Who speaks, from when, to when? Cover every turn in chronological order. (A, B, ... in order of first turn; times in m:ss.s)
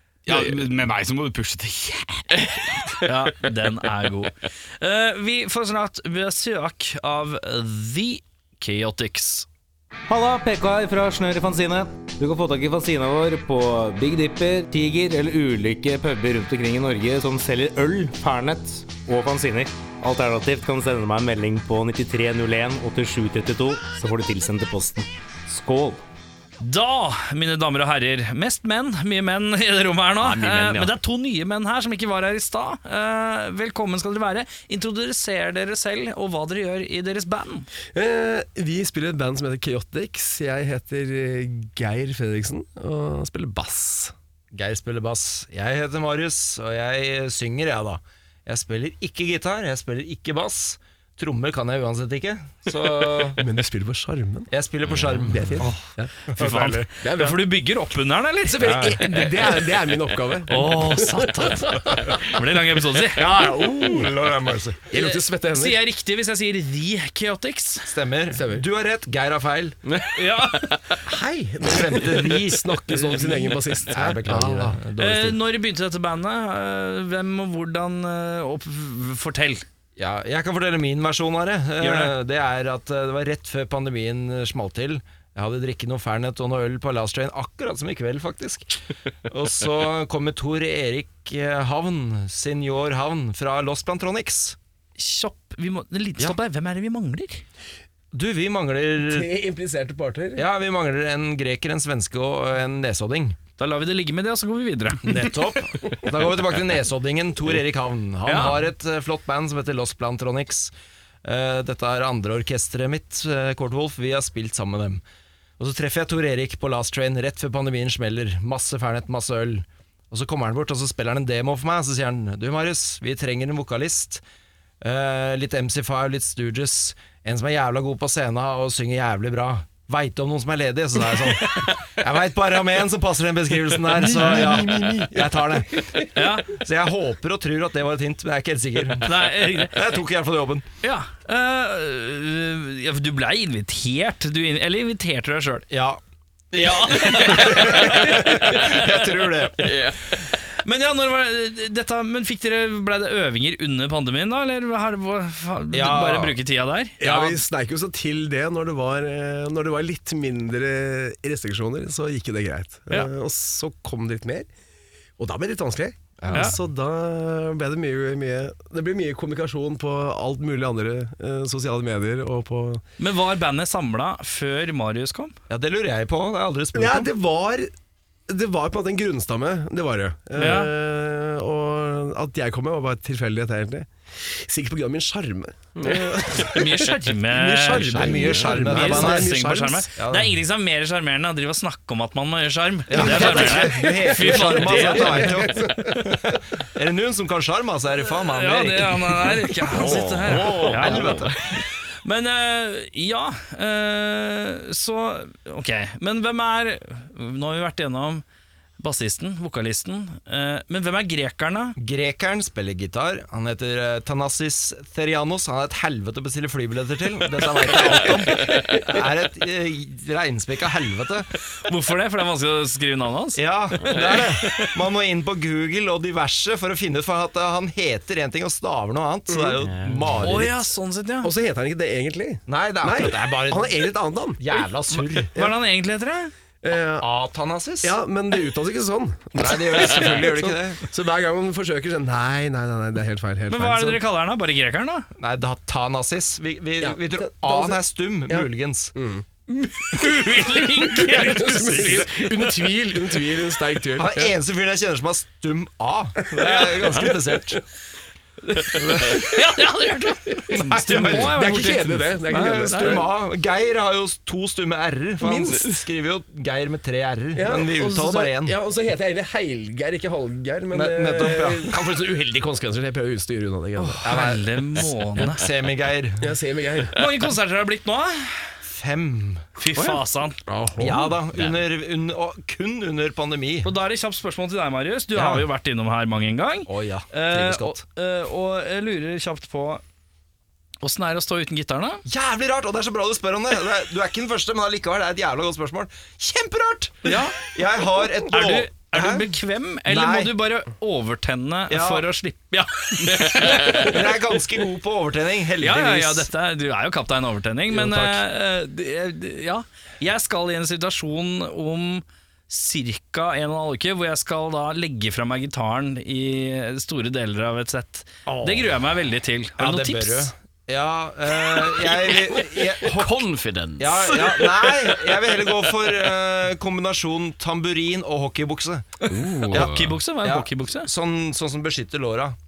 0:00.3-0:02.9 A
0:03.0-0:09.5 B
0:10.1-0:26.0 C
0:26.6-0:37.7 B
0:30.2-0:31.0 D
0:37.9-0:44.1 E
0:44.5-0:53.4 F
0:53.3-0:54.5 E
0:54.5-0:55.7 F
0:54.9-0:55.3 D
0:55.2-0:57.5 E
0:56.3-0:59.3 B
0:58.5-1:02.2 E
1:00.5-1:03.2 B
1:03.2-1:04.1 E
1:03.2-1:04.8 F
1:04.9-1:05.8 E
1:04.9-1:07.9 B
1:07.8-1:09.8 F
1:08.3-1:08.6 E
1:09.8-1:10.8 D
1:10.2-1:11.0 B
1:11.1-1:14.8 E
1:11.6-1:15.4 F
1:15.0-1:19.6 B
1:20.0-1:28.7 F
1:21.8-1:22.1 B
1:29.2-1:34.6 F
1:35.0-1:37.4 B
1:38.1-1:39.3 F
1:39.0-1:40.4 E
1:40.4-1:43.4 F
1:43.6-1:45.1 B
1:45.0-1:50.7 F
1:48.2-1:48.6 B
1:51.2-1:55.0 F
1:55.6-2:04.2 F
2:04.8-2:15.9 F
2:13.9-2:16.1 E
2:16.1-2:16.5 B
2:16.5-2:20.6 F
2:19.0-2:19.8 B
2:20.8-2:25.6 B
2:25.7-2:26.0 F
2:26.5-2:29.7 F
2:26.6-2:28.8 B
2:29.6-2:30.0 D
2:30.6-2:37.4 B
2:35.7-2:36.4 F
2:37.0-2:44.5 E
2:45.2-2:52.8 E
2:46.2-2:46.5 F
2:53.0-2:55.3 B
2:55.5-2:57.1 F
2:56.7-2:57.7 E
2:58.3-3:09.9 E
3:00.4-3:00.7 B
3:05.8-3:06.2 D
3:06.5-3:15.6 B
3:07.8-3:08.4 D
3:08.0-3:09.3 F
3:10.0-3:10.3 F
3:12.9-3:19.8 F
3:13.0-3:16.0 E
3:18.1-3:21.3 B
3:19.7-3:21.4 D
3:20.5-3:21.6 F
3:22.0-3:28.2 B
3:28.8-3:31.8 B
3:31.8-3:41.3 F
3:41.6-3:44.7 B
3:43.4-3:50.5 F
3:49.3-3:49.6 E
3:49.6-3:50.2 D
3:50.2-3:51.3 B
3:51.2-3:54.4 E
3:52.5-3:55.3 F
3:54.5-3:56.3 B
3:56.6-3:57.1 E
3:57.0-3:58.0 F
3:57.8-4:04.0 E
3:59.4-4:00.9 F
4:03.5-4:05.1 B
4:05.2-4:08.9 F
4:06.8-4:09.2 E
4:09.5-4:12.6 B
4:10.8-4:14.3 E
4:13.9-4:17.6 F
4:16.3-4:17.2 E
4:18.5-4:23.0 B
4:18.8-4:19.3 F
4:20.5-4:21.4 F
4:20.8-4:23.2 E
4:22.3-4:28.6 F
4:25.2-4:25.8 E
4:27.3-4:34.3 E
4:30.7-4:32.0 F
4:33.8-4:35.4 B
4:34.0-4:36.4 F
4:36.2-4:37.0 E
4:36.9-4:38.5 B
4:38.6-4:39.5 F
4:39.6-4:40.4 B
4:39.7-4:40.0 D
4:40.4-4:41.2 E
4:40.8-4:43.7 F
4:43.6-4:49.8 B
4:45.1-4:45.5 F
4:46.7-4:47.8 F
4:50.8-4:52.0 B
4:52.0-4:59.3 F
4:57.0-4:57.4 B
4:58.3-5:04.1 B
4:59.8-5:00.3 F
5:01.7-5:02.1 F
5:03.3-5:06.3 F
5:05.6-5:20.3 B
5:07.7-5:08.2 E
5:19.6-5:23.2 F
5:22.8-5:24.9 D
5:23.8-5:28.9 F
5:29.1-5:30.0 D
5:29.5-5:32.4 F
5:29.5-5:30.9 B